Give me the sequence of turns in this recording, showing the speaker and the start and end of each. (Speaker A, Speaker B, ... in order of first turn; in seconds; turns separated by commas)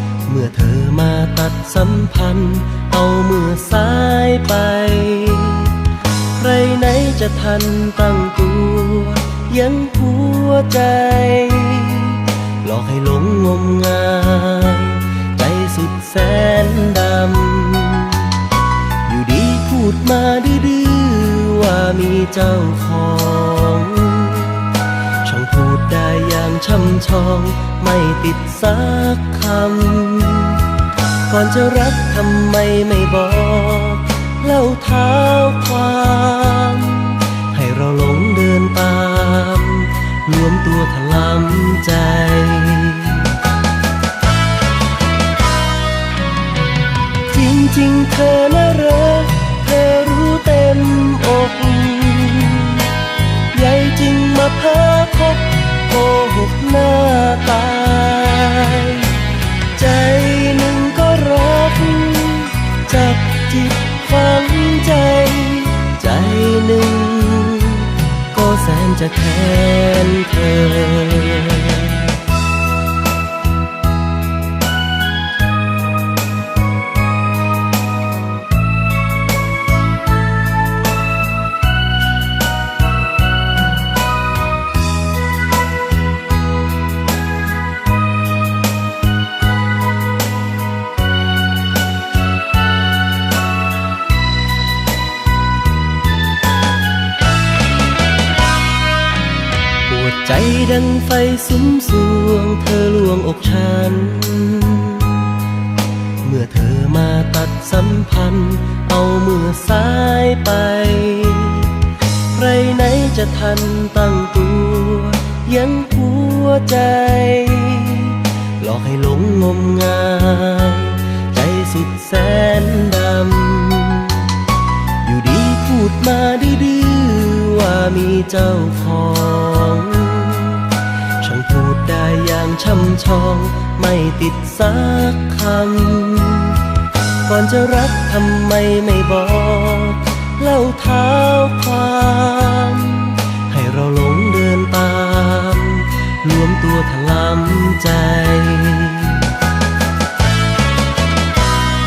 Speaker A: 0.2-18.4, Speaker A: 19.0-43.4, Speaker A: 47.3-72.2, Speaker A: 99.8-105.4, Speaker A: 106.2-124.4, Speaker A: 125.0-149.4